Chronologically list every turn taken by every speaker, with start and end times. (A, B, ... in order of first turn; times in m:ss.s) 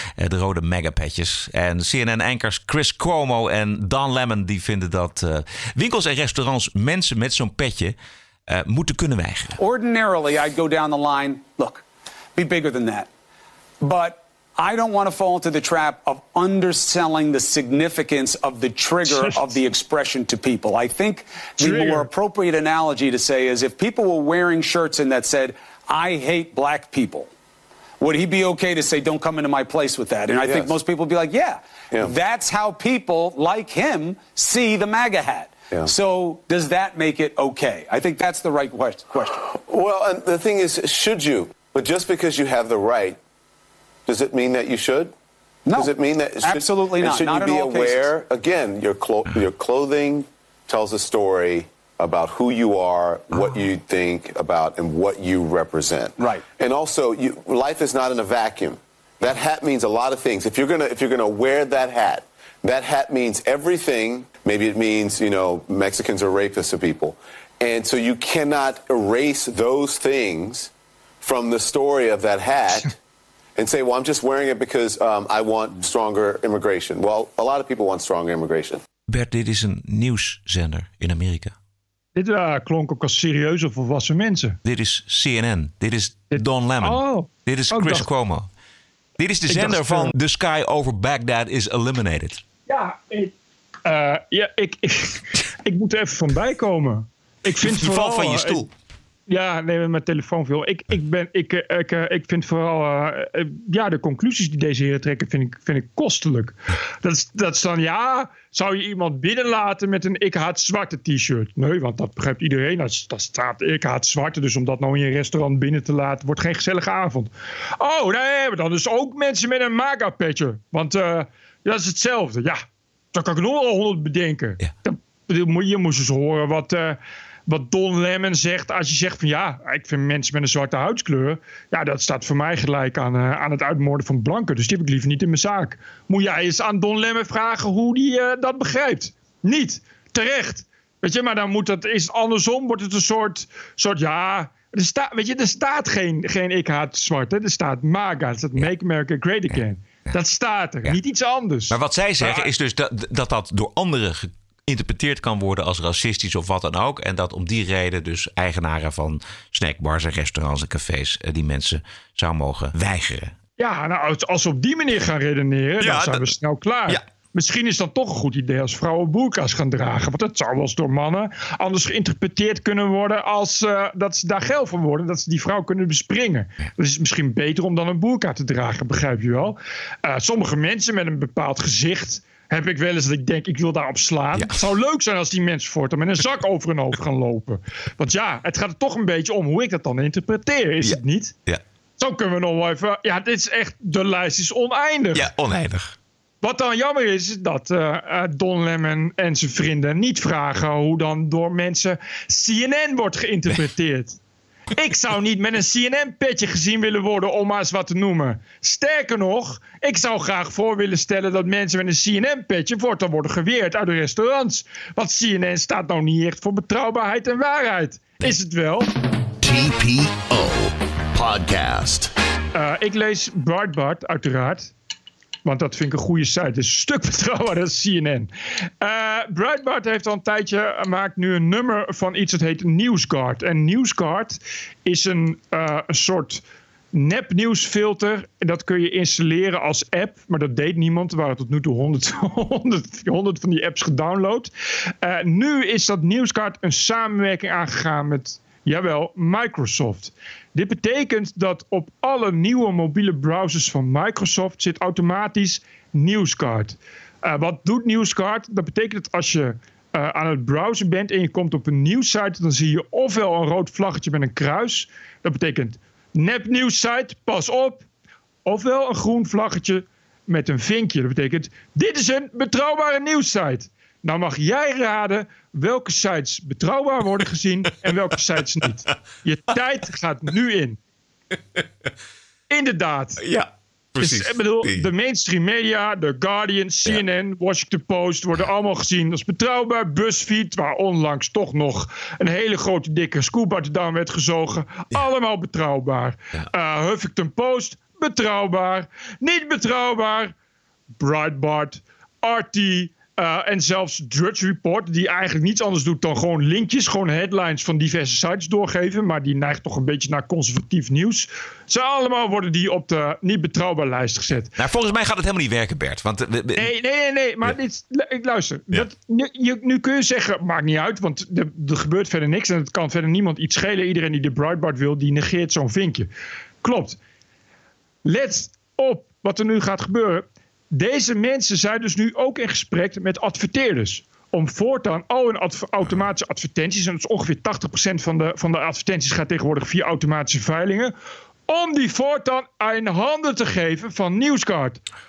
0:00.2-0:08.0 A
0:08.5-0:09.6 A
0:09.6-0:11.8 B
0:12.4-0:13.1 B
0:13.8-0:27.3 B
0:21.6-0:22.1 C
0:28.0-0:39.4 B
0:30.4-0:30.8 D
0:39.4-0:43.2 D
0:44.1-0:45.1 D
0:45.7-0:48.2 B
0:45.7-1:10.7 D
0:56.2-0:56.4 B
1:11.2-1:13.0 D
1:13.6-1:18.8 D
1:19.1-1:21.5 A
1:22.2-1:24.6 C
1:24.6-1:28.5 A
1:26.3-1:28.1 C
1:29.2-1:32.4 A
1:29.5-1:30.1 C
1:32.7-1:33.3 C
1:33.8-1:38.6 C
1:37.6-1:38.7 A
1:39.3-2:02.6 C
2:03.1-2:32.5 C
2:31.7-2:43.3 A
2:43.6-3:11.3 C
2:45.8-2:46.2 A
3:10.8-3:11.6 A
3:12.0-3:15.3 C
3:15.1-3:15.9 A
3:16.4-3:24.2 C
3:24.7-3:38.9 C
3:39.4-3:42.1 E
3:42.5-3:44.7 C
3:45.4-3:48.3 C
3:48.8-3:56.4 C
3:56.9-4:04.5 C
4:05.0-4:27.8 C
4:28.4-4:40.8 C
4:42.5-4:43.3 C
4:43.2-4:44.9 A
4:44.0-5:00.3 C
5:01.0-5:14.5 C
5:14.6-5:16.7 A
5:16.6-5:26.1 C
5:26.6-5:27.0 C
5:28.0-5:40.9 C
5:41.5-5:44.8 C